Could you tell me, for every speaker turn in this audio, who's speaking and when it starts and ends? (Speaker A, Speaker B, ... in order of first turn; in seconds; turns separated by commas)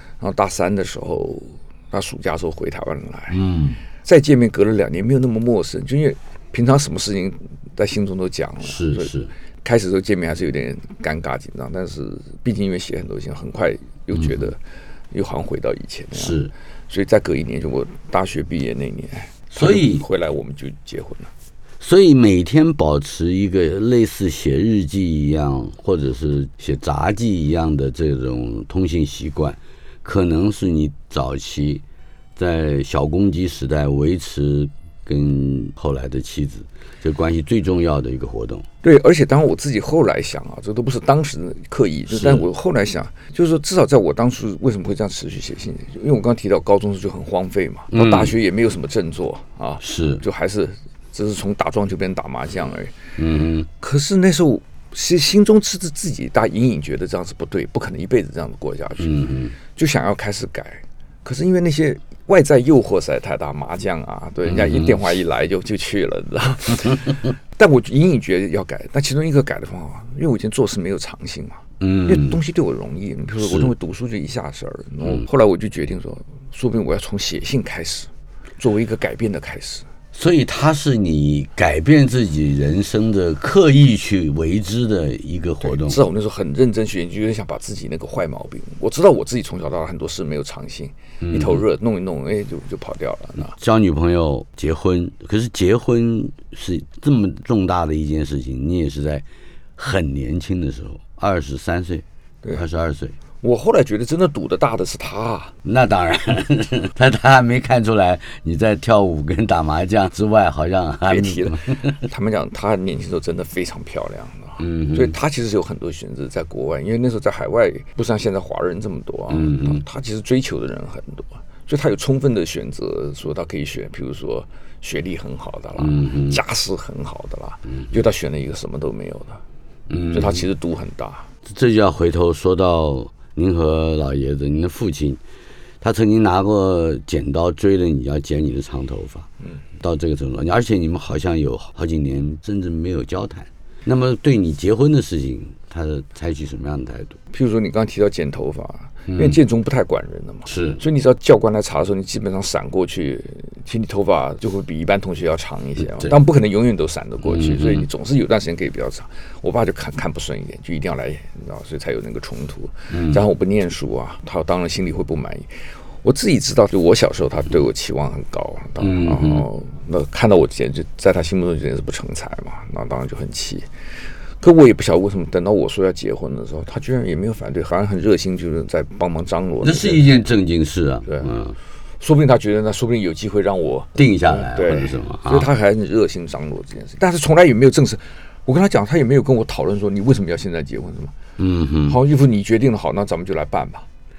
Speaker A: 0.2-3.4, Speaker B: 3.3-3.8, Speaker A: 4.0-14.6, Speaker B: 8.7-9.3, Speaker A: 15.1-21.3, Speaker B: 16.2-16.5, Speaker B: 19.6-20.1, Speaker B: 21.8-31.8, Speaker B: 32.4-38.7, Speaker A: 38.8-53.0, Speaker B: 42.1-42.5, Speaker B: 47.9-48.3, Speaker B: 49.8-50.2, Speaker B: 53.2-53.7, Speaker A: 53.8-79.9, Speaker B: 59.0-59.5, Speaker B: 64.5-65.0, Speaker B: 71.8-72.4, Speaker B: 73.4-73.7, Speaker B: 80.1-86.0, Speaker A: 85.6-93.5, Speaker B: 91.2-91.6, Speaker B: 93.5-99.2, Speaker B: 99.8-103.2, Speaker A: 103.4-105.5, Speaker B: 105.6-112.0, Speaker A: 111.1-129.4, Speaker B: 114.6-115.2, Speaker B: 119.3-119.8, Speaker B: 125.8-126.4, Speaker B: 129.9-130.4, Speaker A: 130.1-131.3, Speaker B: 131.4-135.2, Speaker B: 135.8-139.3, Speaker B: 139.8-147.2, Speaker A: 147.3-165.5, Speaker B: 149.1-149.4, Speaker B: 150.5-150.8, Speaker B: 157.2-157.9, Speaker B: 162.9-163.2, Speaker A: 166.0-173.7, Speaker B: 168.8-169.4, Speaker A: 174.4-180.1, Speaker B: 179.6-181.6, Speaker A: 181.1-181.3, Speaker A: 182.0-191.1, Speaker B: 184.0-185.5, Speaker B: 191.4-192.0, Speaker A: 191.9-193.9